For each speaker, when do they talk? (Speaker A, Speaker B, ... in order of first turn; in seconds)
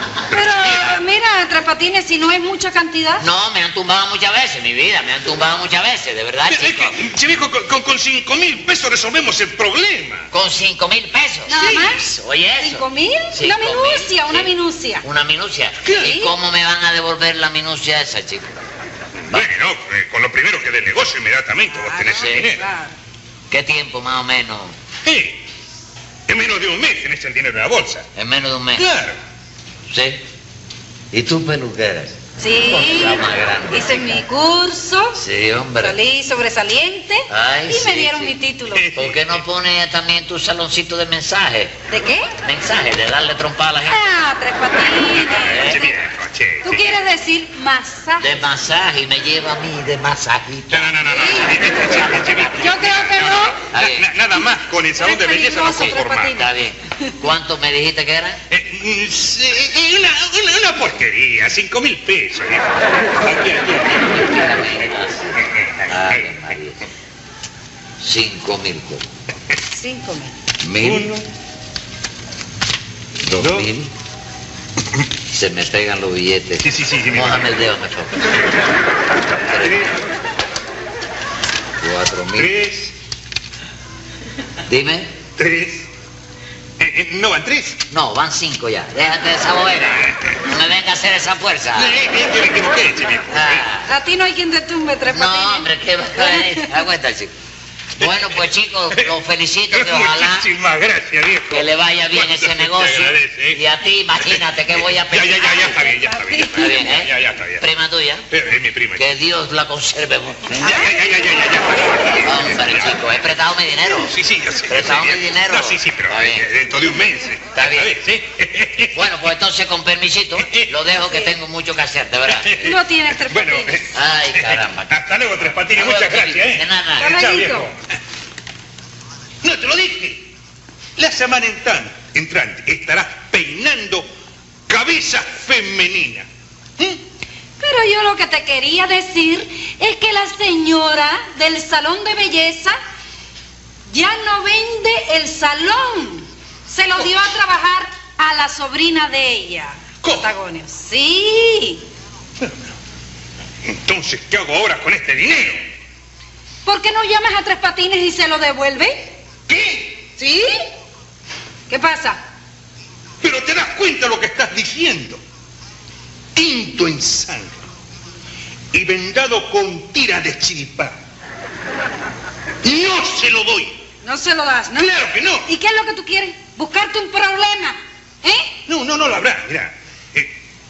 Speaker A: 0.3-0.9, 6.5-10.3, 11.5-12.0, 15.8-16.1, 19.3-22.6, 25.1-25.4, 26.3-28.1, 28.8-29.2, 38.7-39.4, 45.5-46.9, 50.7-56.4, 58.5-64.1, 65.4-66.4, 70.8-71.2, 73.3-73.7, 76.6-77.5, 79.5-79.9, 82.3-82.9, 85.4-85.9, 86.8-87.8, 90.1-90.3, 91.7-93.7, 98.0-99.2, 99.7-103.6, 104.2-107.6, 108.3-109.1, 110.6-113.0, 113.9-119.1, 120.4-120.8, 122.3-127.8, 129.4-130.3, 131.0-134.1, 134.7-136.3, 150.0-150.3, 152.4-152.7, 153.6-155.7, 159.5-160.1, 163.2-165.2, 166.3-167.6, 168.7-170.9, 172.6-173.8, 174.7-175.5, 178.7-180.3
Speaker B: 0.3-3.2, 11.5-12.1, 12.6-15.0, 15.9-16.3, 21.7-22.9, 32.4-35.2, 35.8-38.9, 41.9-42.3, 43.9-46.0, 46.6-48.4, 51.1-51.7, 52.6-53.6, 55.0-56.5, 69.7-70.3, 93.9-96.8, 105.7-106.8, 122.6-123.9, 127.0-127.7, 137.6-142.8, 143.9-151.8, 156.6-159.1, 160.2-160.5, 161.7-162.2, 174.0-178.6
Speaker C: 3.2-7.0, 10.3-18.6, 22.1-22.5, 23.5-24.8, 28.1-28.9, 29.9-30.2, 31.1-34.2, 35.1-36.0, 37.3-38.4, 38.9-41.8, 42.4-44.0, 45.5-45.8, 48.2-51.0, 53.7-54.1, 55.8-58.4, 63.9-66.8, 68.0-69.0, 70.6-71.1, 73.2-73.9, 75.3-78.2, 79.5-79.9, 81.8-82.5, 84.7-85.1, 87.9-92.0, 93.3-93.9, 95.1-97.3, 98.0-100.5, 101.5-105.9, 106.5-108.2, 109.0-110.9, 112.2-114.1, 114.7-116.5, 117.5-118.0, 118.9-122.7, 123.9-127.1